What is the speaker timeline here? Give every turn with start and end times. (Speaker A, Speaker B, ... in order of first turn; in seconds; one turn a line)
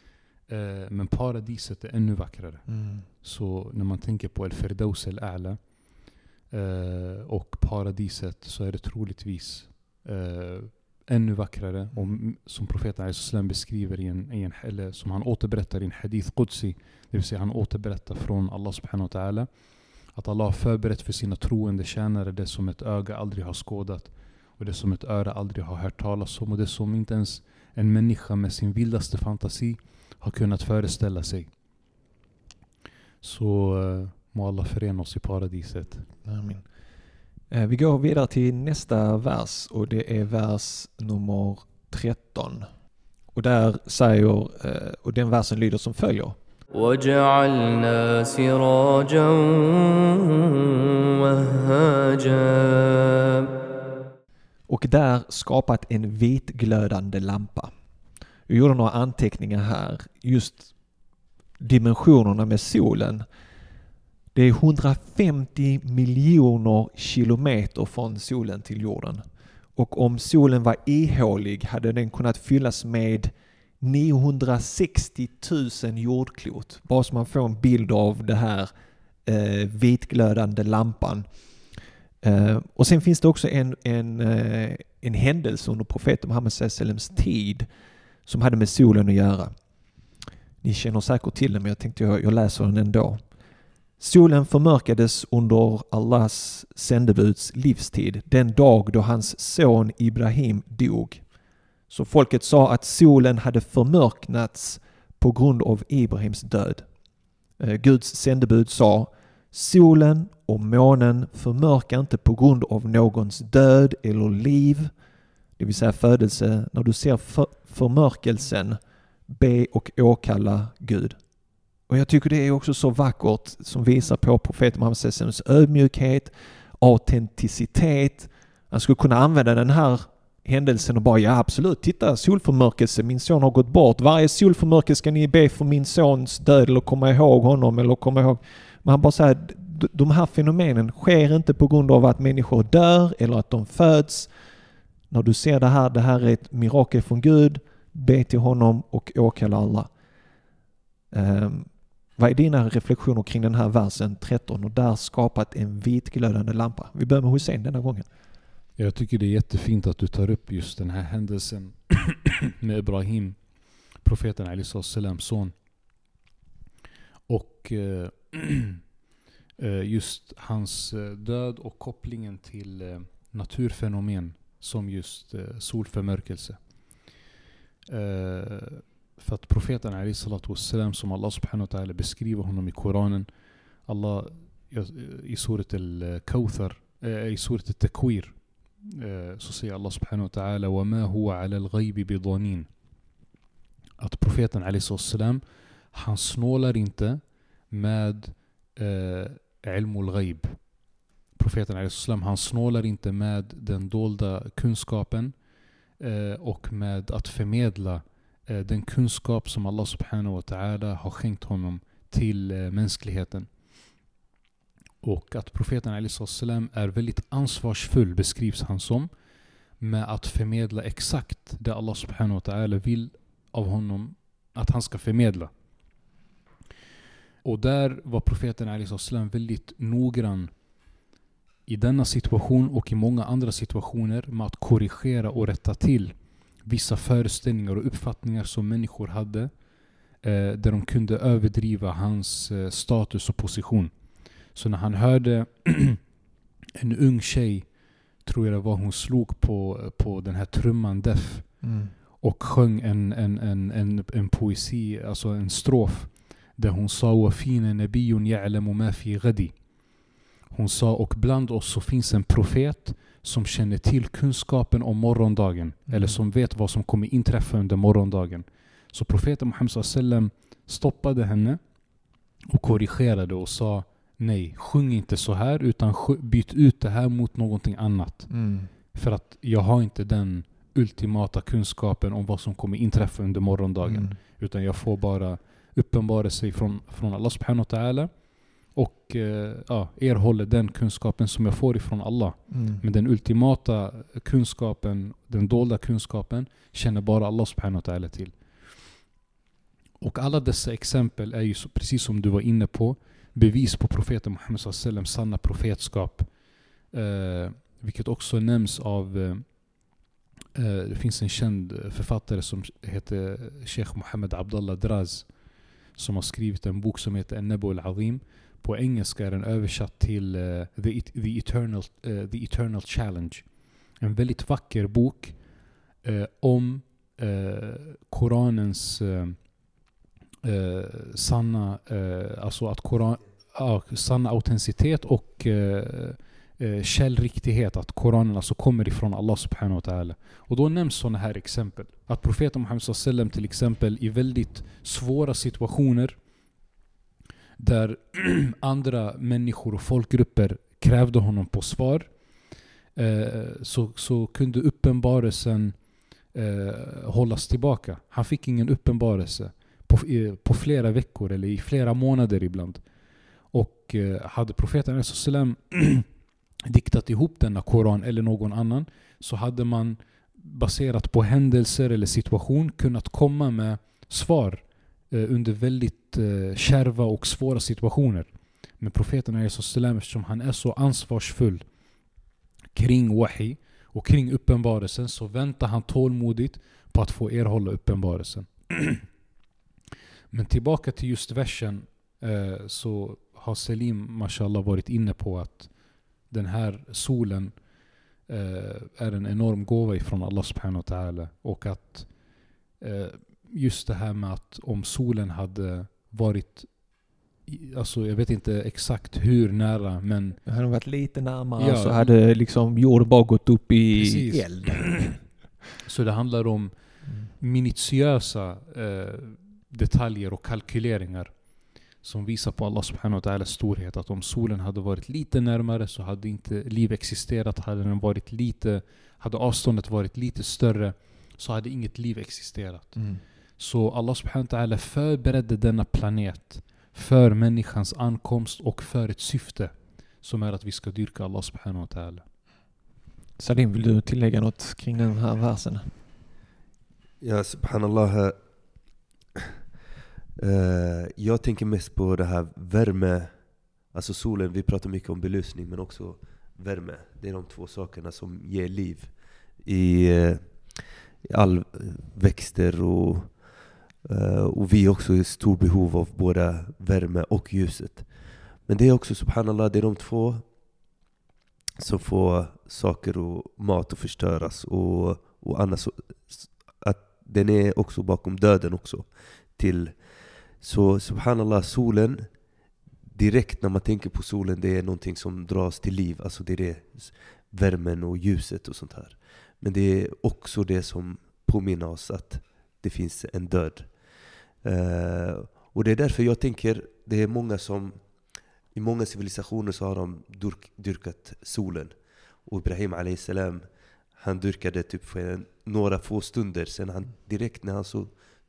Speaker A: 0.5-31.5
Speaker B: 2.7-3.1
Speaker A: 33.2-36.1
Speaker B: 36.2-36.6
Speaker B: 37.5-42.7
Speaker B: 43.3-46.4
Speaker C: 46.7-53.5
Speaker B: 54.7-57.7
Speaker B: 58.5-60.7
Speaker B: 61.6-63.2
Speaker B: 64.3-69.2
Speaker B: 69.8-78.7
Speaker B: 79.2-81.3
Speaker B: 82.2-87.7
Speaker B: 88.3-89.5
Speaker B: 90.6-93.2
Speaker B: 94.0-101.2
Speaker B: 101.9-106.8
Speaker B: 107.6-114.9
Speaker B: 115.6-121.2
Speaker B: 121.9-144.3
Speaker B: 145.1-149.9
Speaker B: 151.1-158.1
Speaker A: 158.8-163.4
Speaker A: 164.0-165.5
Speaker A: 167.3-168.8
Speaker A: 169.6-176.6
Speaker A: 177.9-183.3
Speaker A: 183.8-192.7
Speaker A: 194.0-200.7
Speaker A: 201.4-205.3
Speaker A: 206.0-213.5
Speaker A: 215.0-219.1
Speaker A: 219.8-225.5
Speaker A: 227.4-230.5
Speaker A: 231.7-239.5
Speaker A: 240.2-243.9
Speaker A: 244.5-246.0
Speaker A: 246.8-251.6
Speaker B: 251.6-251.9
Speaker A: 252.2-259.6
Speaker A: 260.5-271.6
Speaker B: 265.9-266.2
Speaker A: 272.5-278.3
Speaker B: 278.3-278.7
Speaker A: 278.9-288.2
Speaker B: 283.8-284.2
Speaker A: 288.7-298.4
Speaker B: 292.5-292.8
Speaker A: 300.0-306.3
Speaker A: 306.9-309.9
Speaker A: 310.6-315.4
Speaker A: 315.9-325.5
Speaker A: 326.0-329.6
Speaker A: 330.4-346.2
Speaker A: 347.6-352.2
Speaker A: 352.9-355.8
Speaker A: 356.3-362.8
Speaker A: 363.5-366.1
Speaker A: 366.7-381.7
Speaker A: 382.7-389.1
Speaker A: 390.3-395.7
Speaker A: 396.2-397.6
Speaker A: 398.3-402.1
Speaker A: 402.8-406.9
Speaker A: 407.4-410.4
Speaker B: 410.4-415.1
Speaker A: 411.6-412.1
Speaker A: 413.9-415.2
Speaker A: 415.8-416.7
Speaker A: 417.3-433.1
Speaker B: 432.9-433.2
Speaker A: 433.6-442.2
Speaker B: 443.4-445.9
Speaker D: 447.2-448.4
Speaker D: 450.4-453.3
Speaker D: 453.9-459.1
Speaker D: 459.6-463.3
Speaker D: 464.1-468.1
Speaker D: 468.7-470.4
Speaker D: 471.8-479.9
Speaker D: 480.6-482.3
Speaker D: 483.1-493.9
Speaker D: 494.6-498.0
Speaker D: 498.7-501.9
Speaker D: 502.4-503.6
Speaker D: 504.2-508.1